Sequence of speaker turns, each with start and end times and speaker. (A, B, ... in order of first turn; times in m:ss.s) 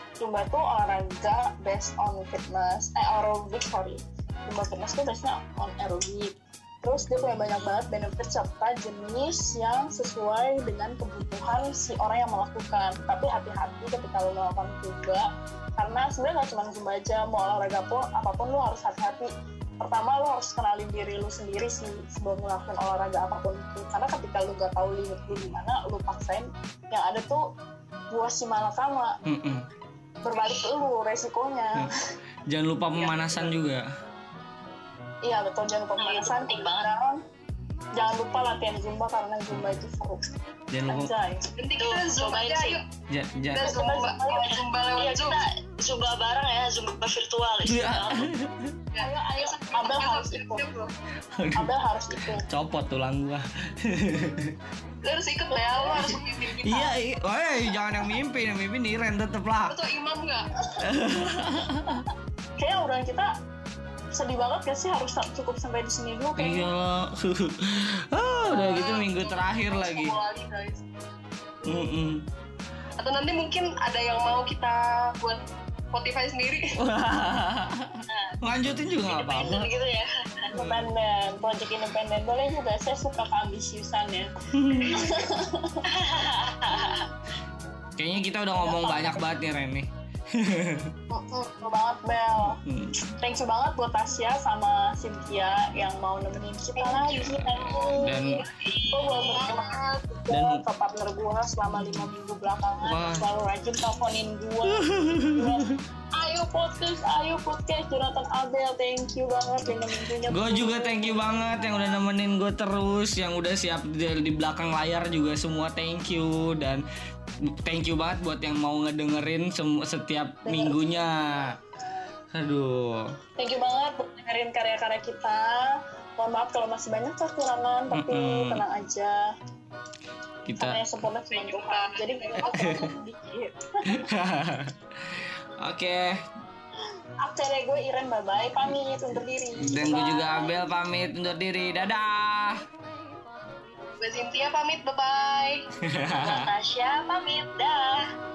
0:00.2-0:15.3 A
0:15.8-0:19.3 A
0:19.8-0:27.4 A
0:28.1-0:29.1 A
0:29.3-0:29.6 B
0:30.2-0:31.9 A
0:32.5-0:33.8 B
0:35.2-0:37.2 A
0:36.0-0:36.9 C
0:38.0-0:40.2 A
0:39.5-0:39.8 B
0:40.7-0:41.1 B
0:40.9-0:41.4 A
0:41.6-0:42.8 D
0:41.8-0:42.8 C
0:43.1-0:43.7 B
0:43.5-0:45.4 D
0:43.6-0:44.5 A
0:44.3-0:48.3 C
0:47.6-0:48.8 B
0:48.9-0:50.9 D
0:49.0-0:50.7 A
0:51.3-0:54.6 B
0:51.6-0:52.4 A
0:55.0-0:57.0 D
0:55.5-0:56.1 A
0:56.0-0:59.8 B
0:59.7-1:00.5 D
1:00.8-1:02.0 B
1:02.6-1:03.3 A
1:04.1-1:06.7 A
1:06.4-1:10.1 B
1:08.4-1:10.8 D
1:11.6-1:12.2 B
1:13.0-1:16.8 D
1:16.8-1:19.7 B
1:18.1-1:18.4 C
1:19.1-1:20.5 C
1:20.5-1:24.3 A
1:20.5-1:20.9 B
1:24.6-1:25.0 B
1:24.9-1:25.8 A
1:25.9-1:27.1 C
1:28.0-1:30.9 B
1:28.6-1:29.2 A
1:31.1-1:32.6 A
1:32.4-1:33.0 B
1:33.2-1:38.2 A
1:36.8-1:37.2 D
1:37.3-1:38.4 B
1:38.6-1:39.4 C
1:38.6-1:40.1 D
1:38.9-1:51.9 A
1:40.3-1:40.6 B
1:41.7-1:42.1 B
1:42.8-1:43.2 B
1:44.7-1:45.8 B
1:50.3-1:56.8 B
1:57.5-2:01.6 B
2:00.4-2:00.8 A
2:02.3-2:03.2 B
2:03.4-2:09.2 A
2:07.9-2:08.6 B
2:10.5-2:10.8 B
2:10.6-2:14.1 A
2:11.3-2:12.8 D
2:12.5-2:12.9 B
2:13.9-2:16.2 B
2:17.2-2:20.6 A
2:19.6-2:22.6 B
2:24.0-2:25.6 D
2:25.8-2:26.5 B
2:26.1-2:28.0 C